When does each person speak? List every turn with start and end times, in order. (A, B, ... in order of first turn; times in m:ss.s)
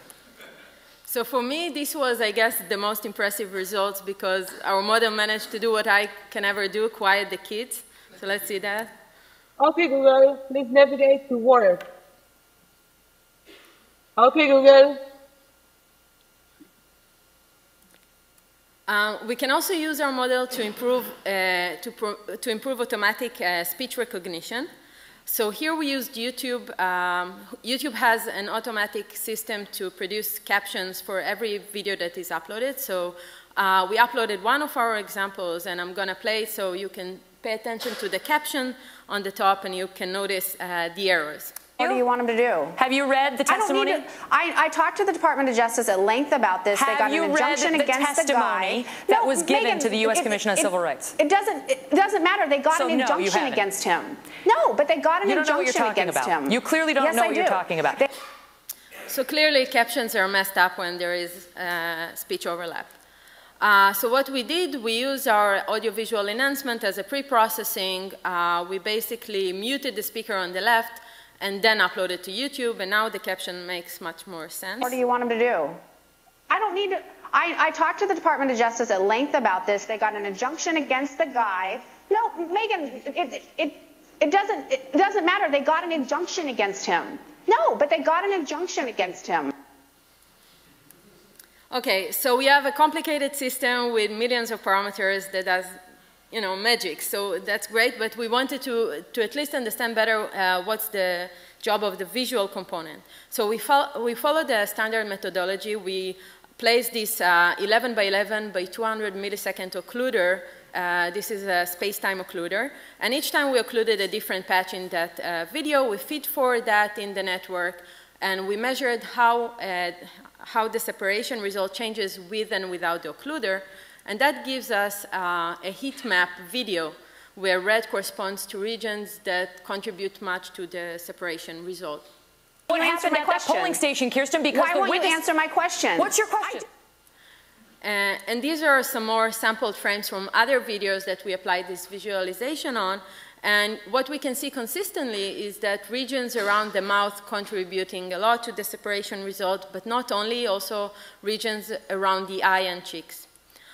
0:01.1-0:08.9 A
0:09.6-0:11.8 B
0:14.2-0:15.0 B
0:18.9-0:24.7 A
0:25.3-0:41.6 A
0:41.8-0:42.8 C
0:42.8-0:44.1 D
0:43.4-0:58.1 C
0:46.8-0:51.1 D
0:52.7-0:53.6 D
0:55.2-0:58.0 D
0:59.1-1:02.9 A
1:03.6-1:15.0 A
1:14.8-1:15.8 C
1:16.5-1:29.5 C
1:31.7-1:35.8 A
1:36.3-2:12.1 A
2:12.7-2:13.8 C
2:12.7-2:15.3 D
2:14.5-2:16.6 C
2:16.0-2:16.7 D
2:17.8-2:33.2 A